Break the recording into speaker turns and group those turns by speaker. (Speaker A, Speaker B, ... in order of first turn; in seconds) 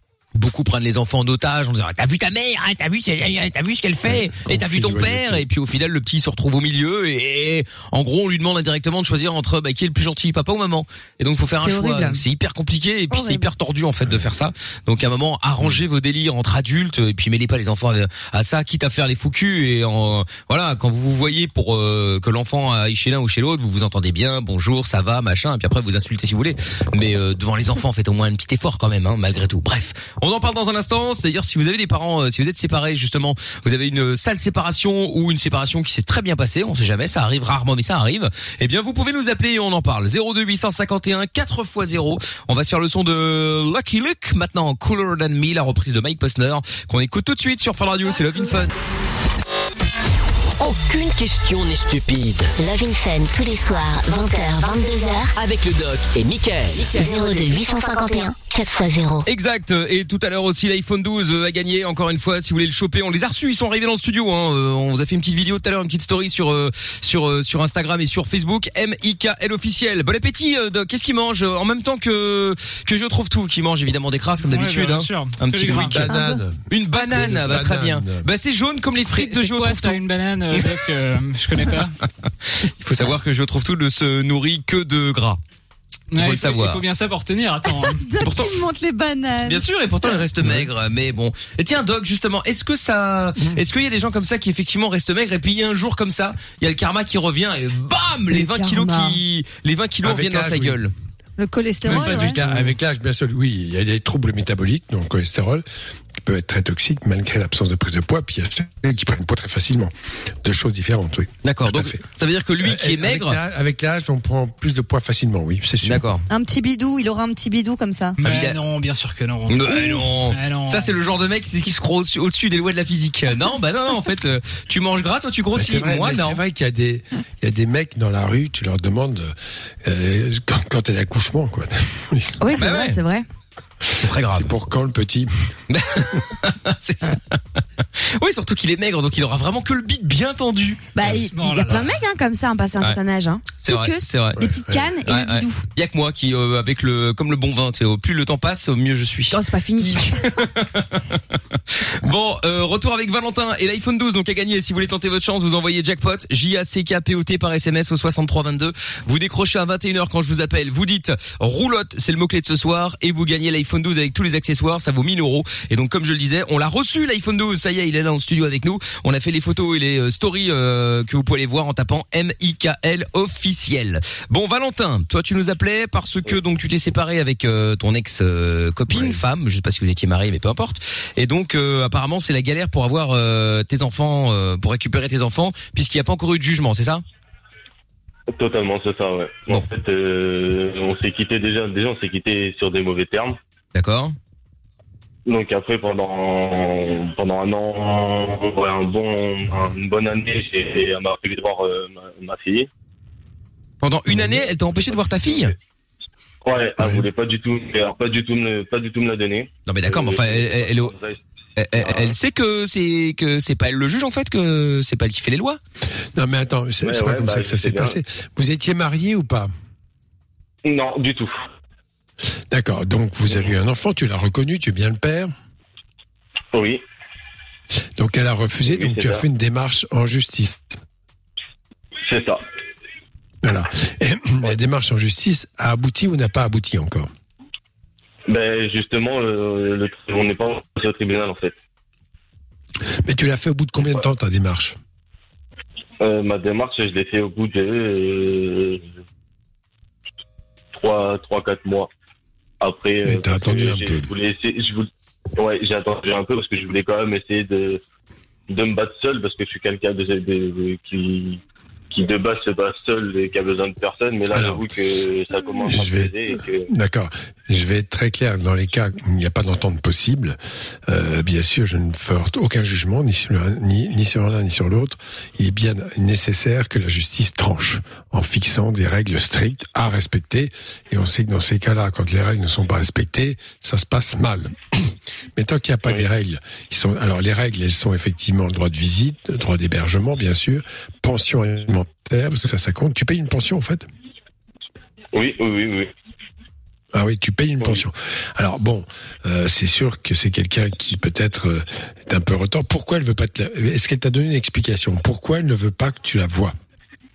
Speaker A: 0.3-48.7, 59.2-76.1, 76.7-80.0, 82.6-85.4, 86.2-86.8, 88.2-88.5, 89.4-100.9, 111.4-113.4, 115.8-116.2, 118.2-118.6, 119.5-126.4, 132.5-133.0, 133.9-134.5, 135.7-140.9, 143.6-144.4, 145.0-187.0, 193.7-194.1, 203.8-205.5, 209.7-210.9, 211.6-215.6
Speaker B: 4.0-5.4, 75.7-78.3, 90.4-90.7, 100.0-100.8, 101.8-105.6, 106.2-112.0, 112.6-116.0, 125.5-132.4, 134.0-135.3, 144.4-144.9, 178.9-179.2, 206.8-207.1, 216.2-219.5, 222.5-225.3, 228.0-230.8, 233.4-237.1, 243.0-244.8, 253.0-254.1, 264.3-264.6, 265.6-266.1, 266.7-293.9, 296.9-306.5
Speaker C: 11.5-12.2, 98.3-99.2, 132.4-133.2, 140.9-145.7, 149.3-150.2
Speaker D: 13.1-13.5, 76.1-76.4, 87.9-89.6, 101.4-102.7, 116.3-118.2
Speaker E: 50.6-52.5, 55.4-57.7
Speaker F: 52.6-55.3, 57.0-59.2
Speaker G: 74.4-76.2, 79.1-81.9, 86.1-88.1, 118.2-121.0, 141.1-141.9
Speaker H: 188.3-193.4, 195.2-202.7, 205.3-205.5, 206.4-211.2, 211.8-212.1, 216.8-217.9, 220.6-221.5, 226.5-226.8, 228.7-229.2, 232.0-232.4, 238.3-241.5, 246.0-248.9, 250.7-251.9, 252.6-257.8, 258.5-266.7, 295.1-295.9